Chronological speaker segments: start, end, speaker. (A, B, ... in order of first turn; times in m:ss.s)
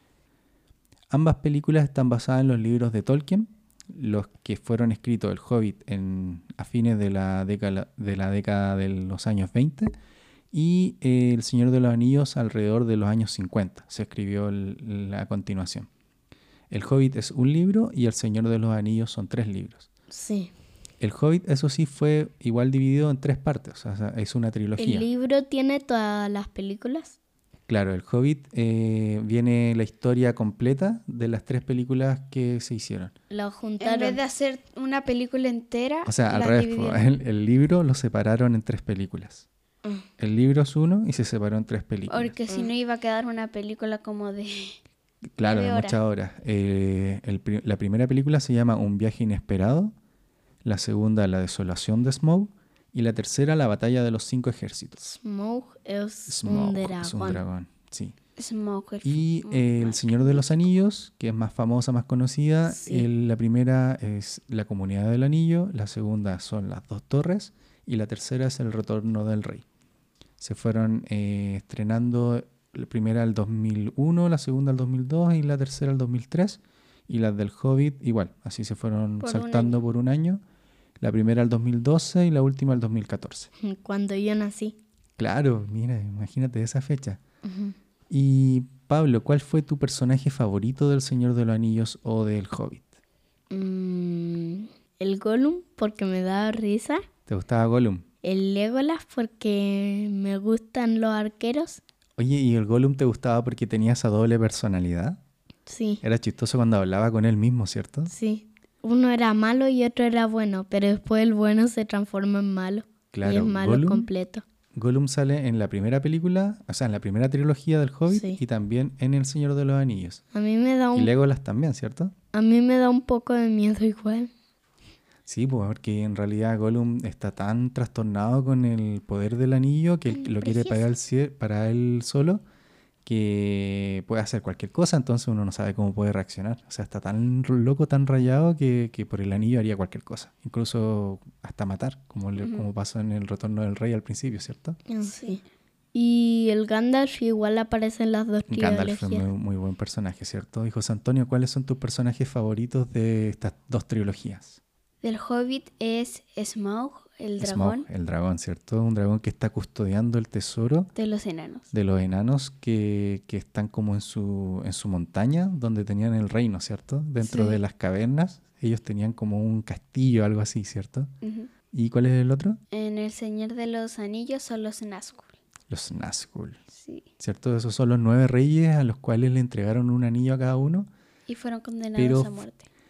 0:01.1-0:09.9 A
0:10.5-0:15.9 A
0:16.7-0:19.9 A
0:20.1-0:20.5 B
0:21.0-0:25.1 A
0:24.8-0:27.2 B
0:27.7-0:33.1 A
0:33.3-0:34.2 B
0:33.8-0:37.1 C
0:36.0-0:39.5 A
0:40.2-0:42.3 A
0:42.1-0:44.8 C
0:45.4-0:49.9 A
0:45.4-0:46.0 C
0:50.6-0:55.2 A
0:55.0-0:57.4 B
0:56.3-0:58.2 A
0:58.4-1:00.7 C
0:59.0-1:09.6 A
1:02.7-1:03.1 B
1:10.4-1:20.4 A
1:19.2-1:19.8 C
1:21.0-1:23.5 A
1:23.6-1:24.8 B
1:25.2-1:27.2 A
1:27.4-1:27.8 B
1:28.1-1:32.9 A
1:33.5-1:37.0 B
1:37.3-1:38.1 A
1:38.2-1:41.8 B
1:42.2-1:45.2 A
1:45.7-1:46.0 B
1:46.0-1:48.1 A
1:48.1-1:54.4 B
1:53.1-1:54.1 A
1:54.8-2:00.2 A
1:58.1-1:58.4 B
2:00.3-2:01.1 B
2:00.9-2:02.1 A
2:02.3-2:04.3 B
2:05.3-2:12.4 A
2:10.1-2:10.9 C
2:13.0-2:24.8 A
2:22.4-2:22.7 C
2:24.9-2:25.4 B
2:25.0-2:25.4 C
2:25.9-2:29.3 B
2:28.5-2:34.6 A
2:35.0-2:37.9 C
2:37.4-2:40.9 A
2:41.0-2:41.7 C
2:41.7-2:51.1 A
2:47.2-2:47.6 C
2:51.2-2:51.5 C
2:51.7-2:52.6 A
2:52.7-2:55.3 C
2:55.7-2:56.6 A
2:56.7-2:57.1 C
2:57.2-3:00.9 A
3:01.3-3:02.7 C
3:02.0-3:02.4 A